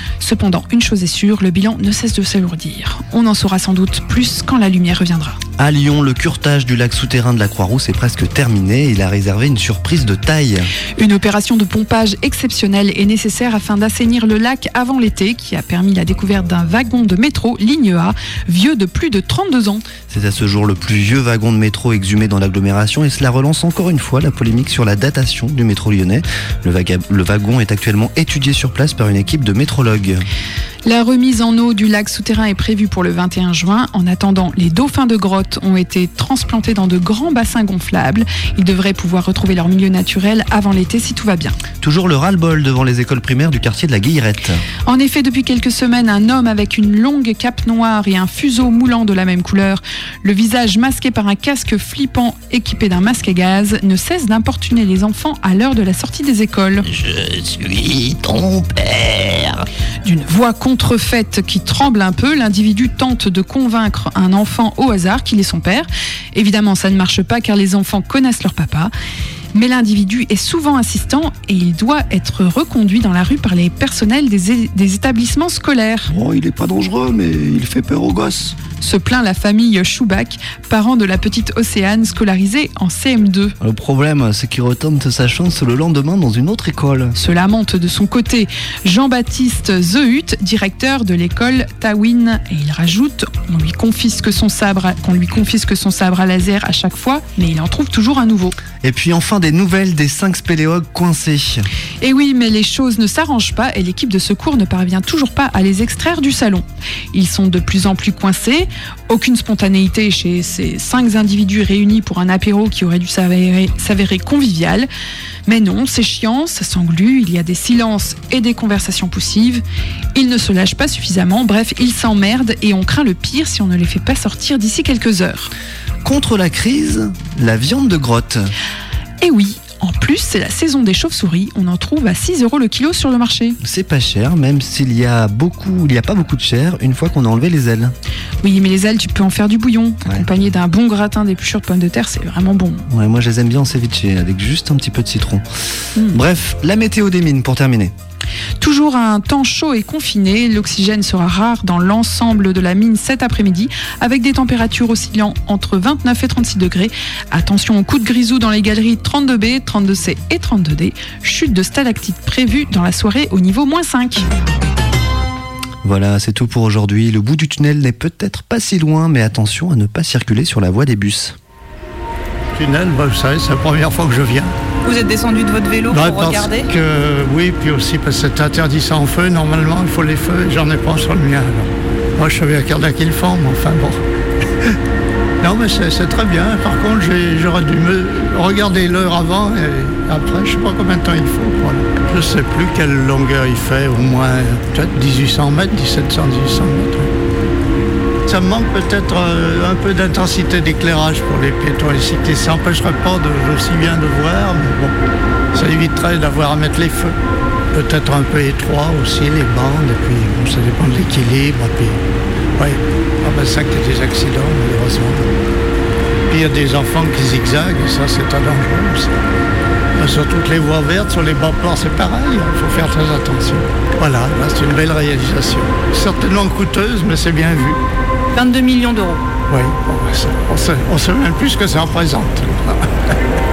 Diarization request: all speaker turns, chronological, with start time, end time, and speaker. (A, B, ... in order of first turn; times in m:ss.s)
0:00.2-0:05.4 A
0:05.6-0:10.7 B
0:11.0-0:19.8 A
0:20.1-0:30.2 B
0:30.8-0:41.6 A
0:41.8-0:44.6 B
0:44.8-0:56.8 A
0:57.6-0:58.9 B
1:00.0-1:08.9 A
1:09.5-1:16.1 A
1:16.1-1:18.6 B
1:18.7-1:23.6 A
1:23.6-1:27.1 B
1:27.2-1:38.6 A
1:38.8-1:41.6 B
1:42.0-1:54.9 A
1:55.5-1:59.6 A
2:00.1-2:05.5 A
2:06.0-2:08.5 B
2:09.2-2:13.6 A
2:13.6-2:17.9 B
2:18.4-2:22.8 A
2:20.0-2:20.3 B
2:22.9-2:25.4 B
2:26.1-2:27.9 B
2:28.6-2:44.2 A
2:45.8-2:51.4 B
2:52.5-2:54.5 C
2:54.8-2:56.7 D
2:55.9-3:04.0 C
3:05.4-3:17.1 C
3:18.3-3:25.0 C
3:25.5-3:27.2 C
3:27.7-3:32.0 C
3:32.6-3:35.3 C
3:36.3-3:39.1 C
3:40.0-3:47.8 C
3:48.3-3:49.2 D
3:49.5-3:52.9 C